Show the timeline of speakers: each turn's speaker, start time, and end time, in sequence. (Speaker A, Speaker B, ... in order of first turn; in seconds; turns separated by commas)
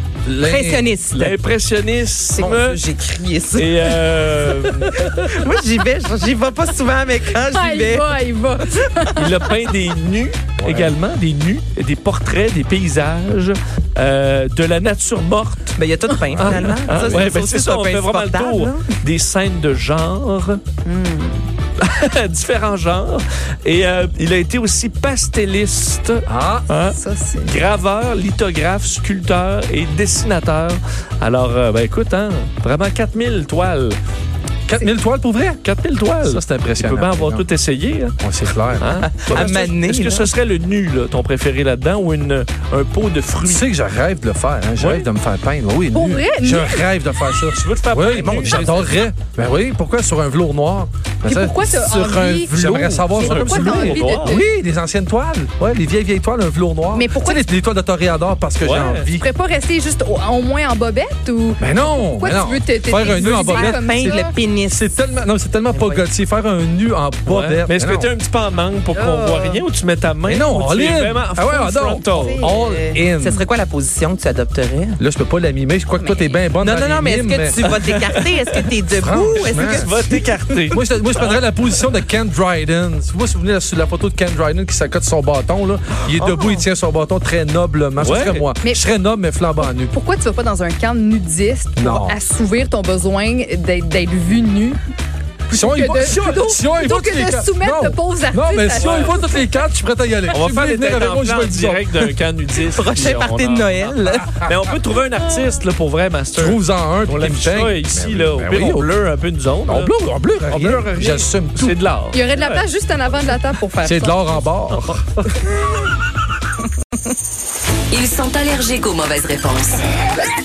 Speaker A: 0.2-0.9, Speaker B: 0.4-1.3, Speaker C: 1.1-2.8, Speaker B: 2.4-4.2, Speaker C: 3.5-5.0, Speaker B: 5.0-8.1, Speaker D: 7.4-9.5, Speaker C: 9.1-15.8, Speaker A: 10.6-10.9, Speaker B: 15.8-18.8, Speaker C: 16.3-20.6, Speaker D: 20.8-21.4, Speaker C: 21.8-34.0, Speaker A: 26.3-26.7, Speaker D: 26.9-27.5, Speaker A: 34.7-35.6, Speaker C: 35.6-38.1, Speaker A: 36.2-37.4, Speaker A: 38.2-39.1, Speaker C: 38.8-43.6, Speaker B: 39.0-40.3, Speaker A: 43.4-59.2, Speaker C: 44.8-45.1, Speaker D: 45.9-46.9, Speaker C: 47.5-49.0, Speaker B: 48.2-48.6, Speaker D: 51.2-54.5, Speaker C: 53.2-54.4, Speaker D: 56.9-57.4, Speaker C: 58.6-59.1, Speaker D: 59.1-64.3, Speaker A: 61.6-68.1, Speaker B: 63.0-64.9, Speaker B: 65.7-66.1, Speaker C: 67.3-72.4, Speaker D: 68.9-69.5, Speaker A: 70.2-73.5, Speaker D: 72.1-73.0, Speaker B: 72.2-75.0, Speaker A: 75.0-77.7, Speaker B: 76.5-80.7, Speaker C: 77.6-78.7, Speaker A: 78.9-80.0, Speaker C: 79.4-81.8, Speaker A: 80.7-89.9, Speaker B: 86.2-86.6, Speaker C: 88.0-88.5, Speaker D: 88.6-88.9, Speaker D: 89.6-94.8, Speaker A: 91.8-92.2, Speaker D: 95.5-99.4, Speaker A: 95.5-102.0, Speaker C: 98.8-99.1, Speaker C: 100.3-112.6, Speaker B: 102.6-104.4, Speaker A: 106.3-108.9, Speaker A: 109.7-111.8, Speaker D: 112.1-114.4, Speaker A: 113.8-115.0, Speaker E: 117.9-119.8